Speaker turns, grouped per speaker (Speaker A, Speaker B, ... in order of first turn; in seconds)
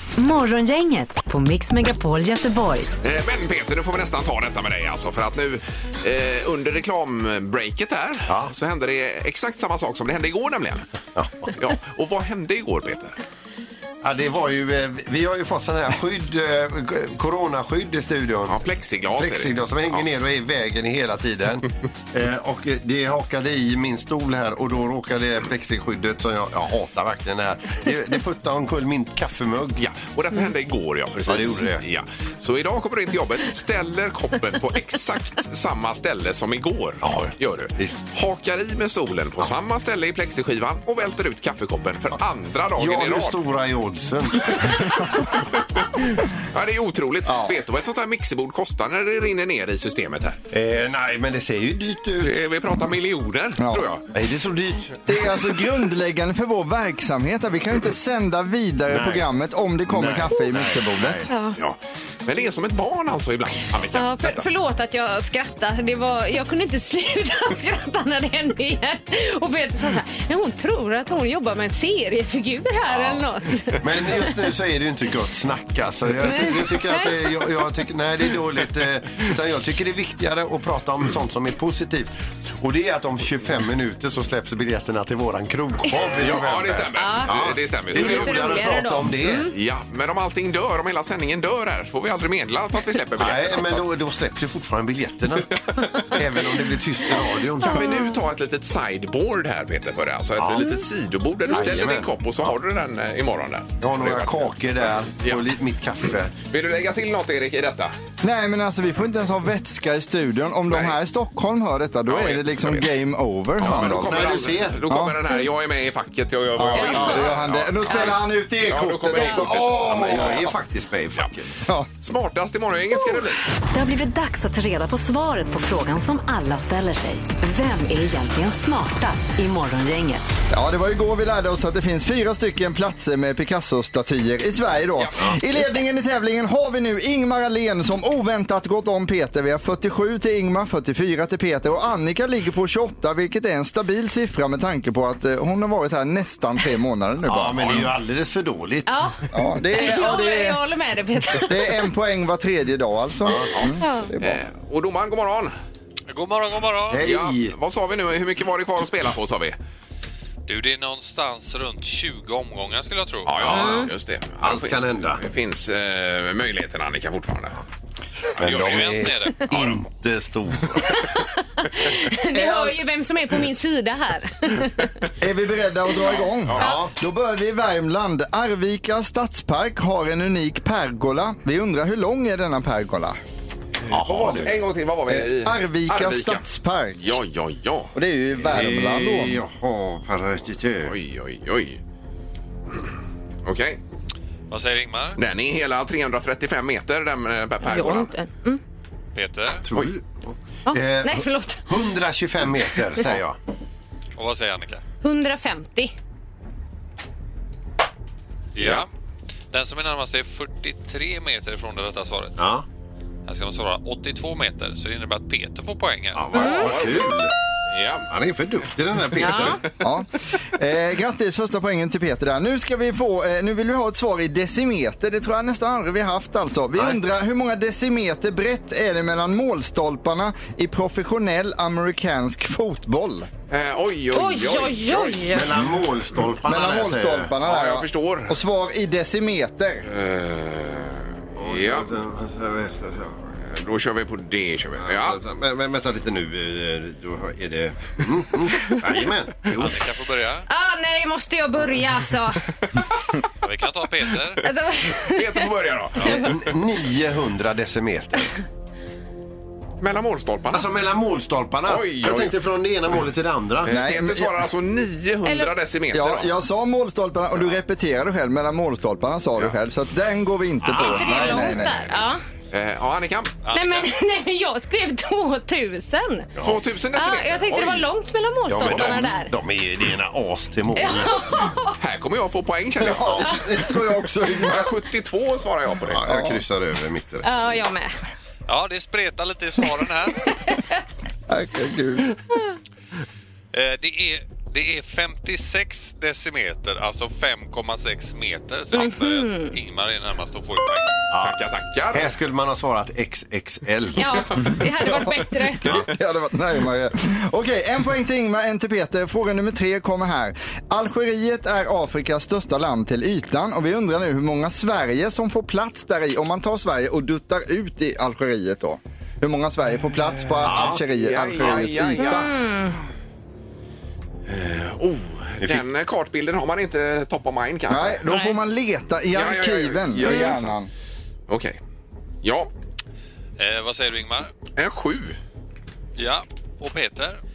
Speaker A: 0.2-2.9, 123.7-130.3
Speaker B: 3.0-10.8, 11.5-13.2, 18.5-20.1, 29.8-43.4, 46.5-50.4, 52.2-54.1, 61.6-64.4, 86.2-88.7, 89.5-93.9, 97.6-104.5, 106.4-107.9, 110.7-111.0, 112.1-112.9, 113.6-120.5, 122.0-123.4, 153.5-155.5, 157.0-159.6, 163.2-167.6, 168.4-169.8, 176.4-176.7, 183.9-186.4, 187.0-187.9, 190.8-191.8, 193.4-193.8, 195.2-198.1, 216.4-217.2, 217.7-218.1, 233.5-235.5, 237.4-238.4, 239.9-241.9, 243.4-245.2, 255.0-256.4, 259.8-260.7, 261.6-262.4, 263.6-266.3, 272.5-273.3, 276.4-277.9, 278.6-279.1, 281.8-283.4, 284.4-286.1, 301.2-302.1, 320.4-322.3, 324.3-328.0, 329.1-330.6, 331.3-331.6, 332.2-332.5, 334.6-335.2
Speaker C: 8.3-8.5, 11.2-11.5, 14.0-18.6, 19.1-29.8, 31.2-31.8, 37.0-38.0, 42.8-45.0, 50.5-52.4, 54.1-55.3, 58.9-59.2, 59.9-61.3, 72.9-73.2, 73.8-89.5, 93.2-98.0, 100.4-100.8, 101.5-102.1, 103.8-106.3, 113.6-114.8, 119.2-121.5, 147.2-148.9, 156.9-157.5, 163.5-163.8, 164.4-165.2, 168.4-171.0, 176.6-176.9, 183.9-184.6, 188.4-190.9, 199.7-203.4, 212.4-212.6, 216.1-217.3, 218.1-219.7, 235.3-237.3, 241.4-243.3, 244.8-249.8, 256.0-258.4, 260.5-263.7, 270.6-271.5, 278.5-281.2, 283.0-283.3, 285.9-287.2, 301.1-304.6, 320.4-320.8
Speaker D: 47.2-47.6, 53.6-53.9, 55.0-61.3, 108.2-115.2, 116.6-120.4, 130.5-147.8, 149.3-150.6, 151.4-154.4, 172.3-172.7, 175.2-183.2, 185.1-187.0, 187.9-189.4, 219.8-233.3, 236.4-239.9, 263.6-264.4, 265.9-271.8, 282.8-284.7, 286.1-286.4, 291.3-292.1, 305.6-322.3, 327.7-330.7
Speaker E: 61.3-61.6, 63.9-74.2, 76.3-77.1, 87.0-87.4, 87.9-89.5, 97.6-98.2, 116.8-117.3, 148.9-149.2, 149.7-151.7, 153.8-154.1, 163.5-163.9, 171.6-174.9, 197.6-198.6, 200.7-201.6, 205.0-205.9, 216.3-216.7, 219.2-219.6, 234.1-235.5, 250.5-252.4, 254.4-255.5, 265.2-265.5, 270.7-272.2, 273.5-276.3, 276.9-279.3, 280.7-281.8, 287.2-287.9, 298.7-299.5, 303.9-305.7, 322.0-322.7, 328.1-328.4, 330.1-330.3
Speaker F: 156.1-157.1, 160.5-163.6, 168.4-169.5, 194.5-195.2, 199.1-199.6, 204.2-204.8, 208.5-208.9, 209.5-212.4, 213.2-216.7, 249.6-250.4, 253.4-254.4, 273.4-273.9, 288.5-290.3, 293.5-301.0, 333.4-334.3, 336.0-337.2